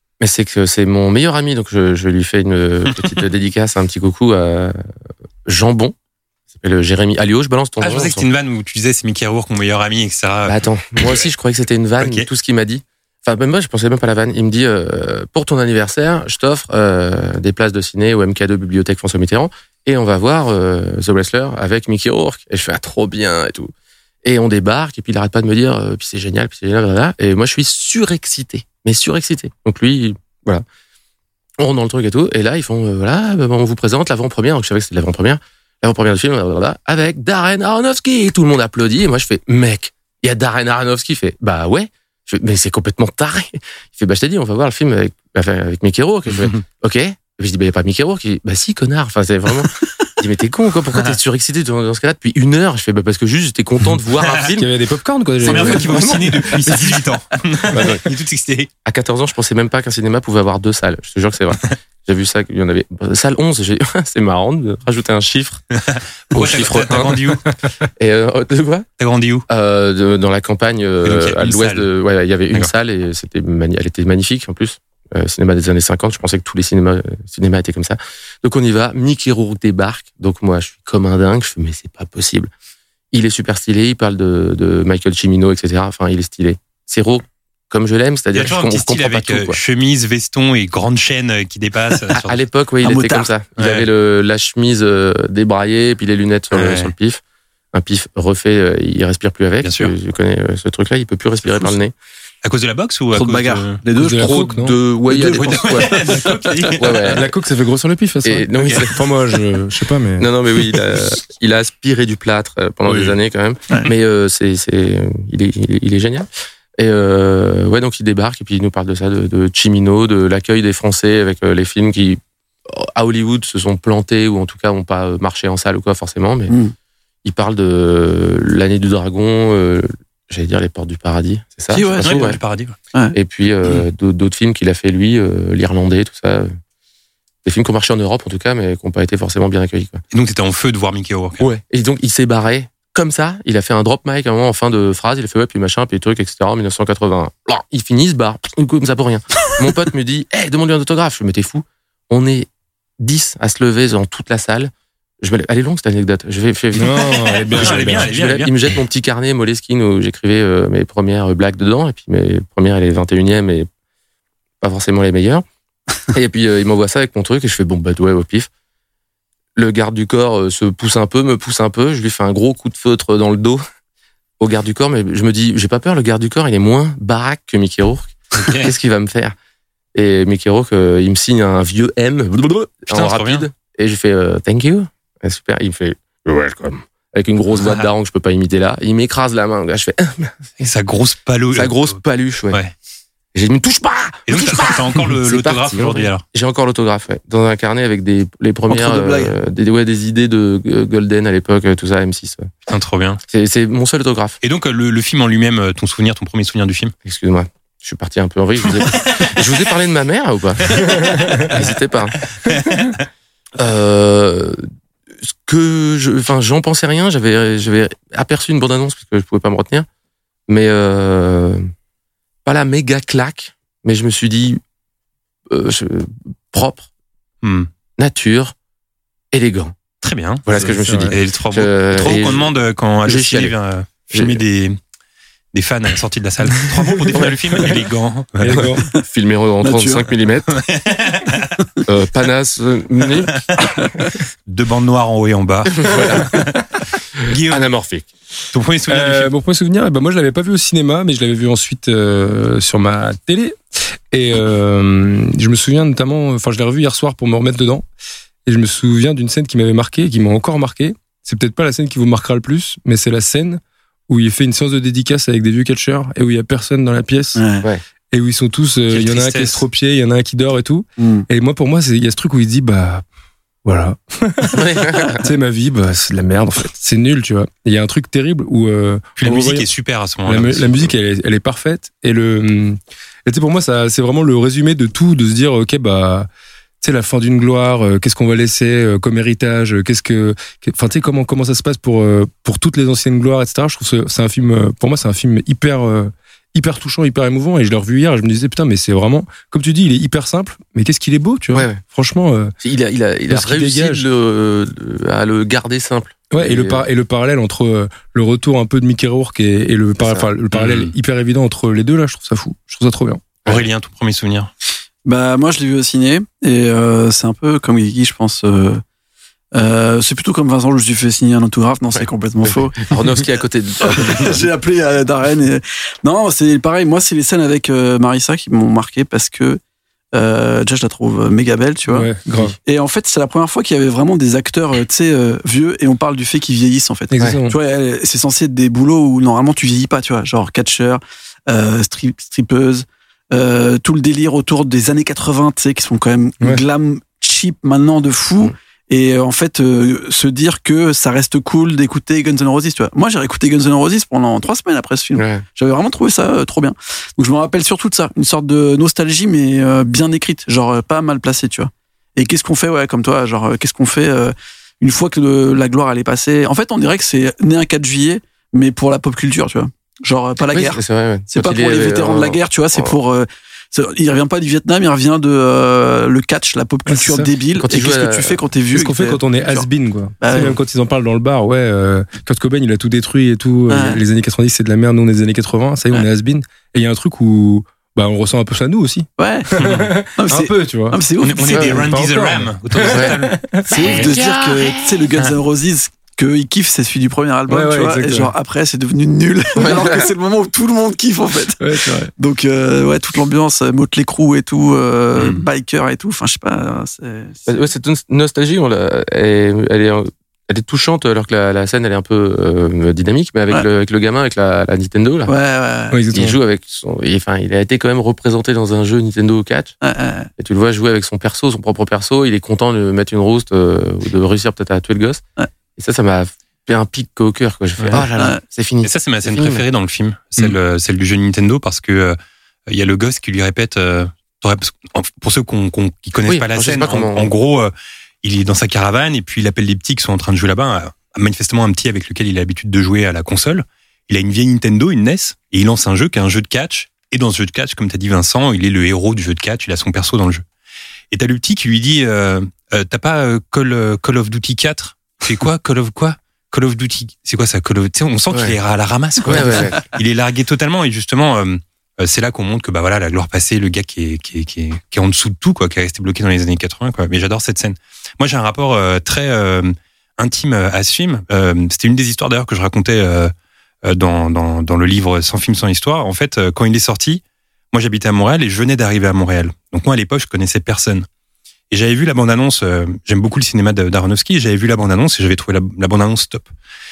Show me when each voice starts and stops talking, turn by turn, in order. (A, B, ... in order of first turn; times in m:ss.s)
0:00.2-0:04.8 A
0:05.4-0:05.9 A
0:06.5-0:08.2 A
0:07.8-0:11.3 B
0:10.4-0:23.7 A
0:12.0-0:12.3 B
0:24.2-0:30.6 A
0:31.6-0:54.7 A
0:54.1-0:54.5 B
0:54.5-0:56.7 C
0:55.4-0:56.9 A
0:55.4-0:58.7 B
0:57.7-0:58.0 A
0:58.8-1:05.6 A
1:06.0-1:07.4 B
1:06.3-1:07.4 A
1:08.0-1:08.9 A
1:09.0-1:09.4 B
1:09.5-1:22.5 A
1:11.0-1:11.9 B
1:23.1-1:29.6 A
1:28.3-1:32.4 B
1:32.1-1:37.2 A
1:32.8-1:33.3 D
1:33.6-1:33.9 B
1:36.5-1:36.9 B
1:37.7-1:41.9 A
1:39.6-1:39.9 B
1:42.4-1:43.8 B
1:43.1-1:44.4 D
1:43.3-1:47.2 A
1:43.9-1:45.7 C
1:45.1-1:47.2 B
1:47.0-1:50.3 C
1:48.2-1:49.0 A
1:48.6-1:48.9 B
1:50.2-2:06.5 A
2:06.5-2:06.7 D
2:07.2-2:12.4 A
2:11.7-2:12.3 D
2:12.0-2:12.8 B
2:13.1-2:16.5 A
2:17.4-2:20.0 A
2:20.1-2:21.5 B
2:21.4-2:32.5 A
2:33.0-2:43.7 A
2:36.7-2:38.1 C
2:37.6-2:38.8 B
2:44.6-2:45.4 A
2:46.1-2:48.5 A
2:49.6-2:53.6 A
2:54.4-2:59.3 A
2:58.4-2:58.7 B
2:59.9-3:10.5 A
3:02.9-3:03.5 B
3:07.5-3:07.9 B
3:10.6-3:12.0 B
3:11.5-3:12.6 A
3:13.3-3:22.5 A
3:14.3-3:16.2 B
3:18.7-3:19.4 D
3:22.7-3:23.2 B
3:23.3-3:24.4 A
3:24.4-3:26.9 B
3:27.0-3:32.6 A
3:28.8-3:29.4 B
3:30.7-3:31.7 B
3:32.4-3:32.9 B
3:33.6-3:34.6 A
3:35.2-3:39.8 A
3:40.5-3:41.7 A
3:42.4-3:44.6 A
3:45.5-3:46.8 A
3:47.4-3:47.7 B
3:48.0-3:48.5 A
3:49.3-3:49.7 A
3:50.0-3:54.8 B
3:50.4-3:52.5 A
3:50.6-3:51.2 C
3:53.0-3:53.5 A
3:54.1-3:54.4 A
3:55.5-3:58.8 B
3:58.4-3:58.8 C
3:58.5-4:00.6 A
3:59.6-4:00.1 D
4:00.5-4:01.5 B
4:01.8-4:03.8 A
4:03.3-4:03.9 B
4:04.5-4:07.7 B
4:05.7-4:06.6 A
4:07.4-4:08.1 A
4:08.5-4:09.3 B
4:08.9-4:13.6 C
4:14.1-4:17.8 C
4:18.4-4:27.4 C
4:27.4-4:27.6 D
4:28.1-4:33.0 C
4:28.9-4:29.6 B
4:31.0-4:31.2 D
4:33.6-4:39.7 C
4:34.5-4:35.2 A
4:39.2-4:40.9 B
4:40.2-4:46.3 C
4:46.8-5:02.5 C
5:01.5-5:01.8 A
5:02.6-5:06.8 A
5:03.3-5:04.1 C
5:06.3-5:13.2 C
5:10.0-5:10.3 A
5:10.5-5:10.9 B
5:13.4-5:14.5 B
5:15.0-5:18.8 D
5:19.5-5:22.8 D
5:22.8-5:24.5 A
5:23.8-5:29.6 D
5:30.1-5:32.1 D
5:31.9-5:32.6 C
5:32.6-6:10.8 D
5:37.1-5:37.6 C
5:55.2-5:55.4 A
6:10.5-6:13.0 A
6:11.3-6:19.7 D
6:16.9-6:17.3 C
6:17.5-6:18.4 A
6:18.7-6:31.0 C
6:20.2-6:20.6 D
6:23.7-6:24.0 D
6:29.2-6:29.5 D
6:29.6-6:29.9 B
6:30.1-6:31.7 D
6:31.2-6:34.1 B
6:31.5-6:31.8 A
6:31.5-6:33.7 C
6:32.8-6:33.2 A
6:33.6-6:41.6 D
6:33.7-6:35.1 A
6:37.5-6:38.3 C
6:39.6-6:40.1 A
6:41.6-6:42.1 C
6:42.2-6:47.5 D
6:45.2-6:45.4 B
6:47.5-6:55.3 A
6:55.3-6:56.0 D
6:55.9-6:56.4 C
6:56.1-6:59.8 A
6:59.8-7:00.3 D
7:00.4-7:05.2 A
7:05.8-7:09.6 A
7:07.8-7:08.1 B
7:08.1-7:08.4 D
7:08.8-7:30.4 B
7:16.2-7:17.3 A
7:31.1-7:53.3 B
7:39.2-7:39.8 A
7:53.8-8:01.1 B
8:01.7-8:06.5 B